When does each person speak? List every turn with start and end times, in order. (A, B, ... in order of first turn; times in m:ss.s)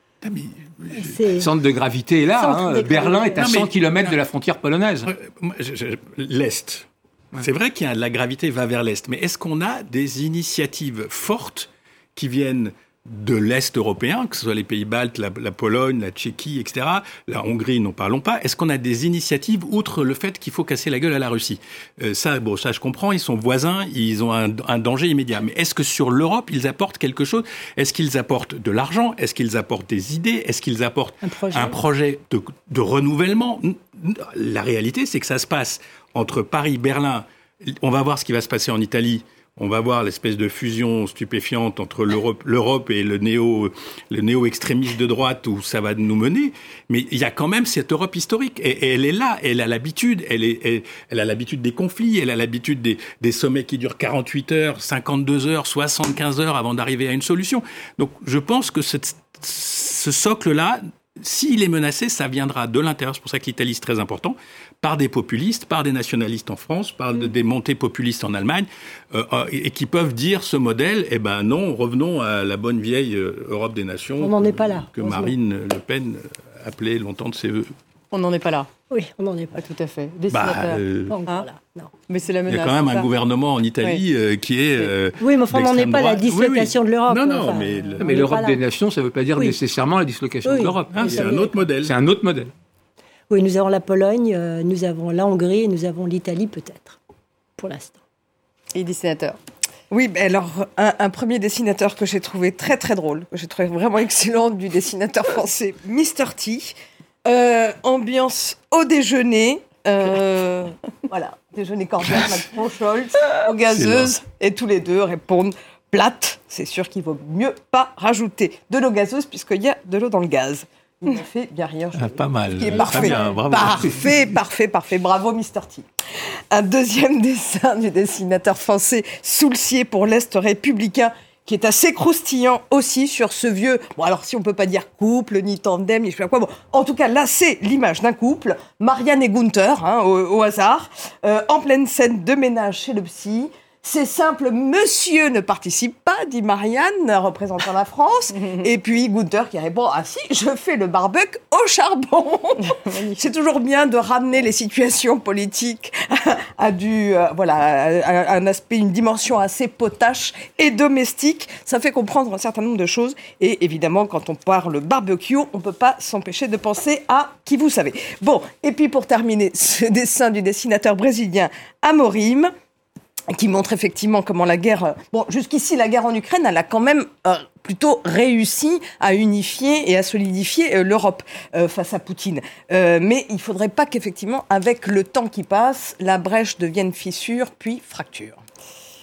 0:00.2-0:01.2 A
0:00.9-0:01.5 B
0:01.3-0:05.1 C
0:02.4-0:03.4 B
0:03.4-0:04.2 A
0:05.0-1:17.7 A
0:31.2-0:31.8 B
1:14.2-1:15.3 B
1:18.1-1:18.7 D
1:18.9-1:19.6 B
1:19.5-1:21.4 D
1:20.3-1:21.2 A
1:21.1-1:21.9 B
1:22.1-1:23.1 D
1:22.5-1:28.1 A
1:25.2-1:28.6 B
1:28.0-1:32.5 C
1:30.4-1:31.6 B
1:30.9-1:31.9 A
1:33.3-1:37.0 B
1:37.6-1:38.0 B
1:38.7-1:39.4 D
1:39.9-1:46.7 E
1:47.2-2:05.8 E
1:53.7-1:54.1 A
2:01.9-2:04.3 A
2:03.6-2:04.0 C
2:06.5-2:52.5 E
2:28.4-2:28.6 D
2:32.7-2:33.2 D
2:53.3-3:08.4 E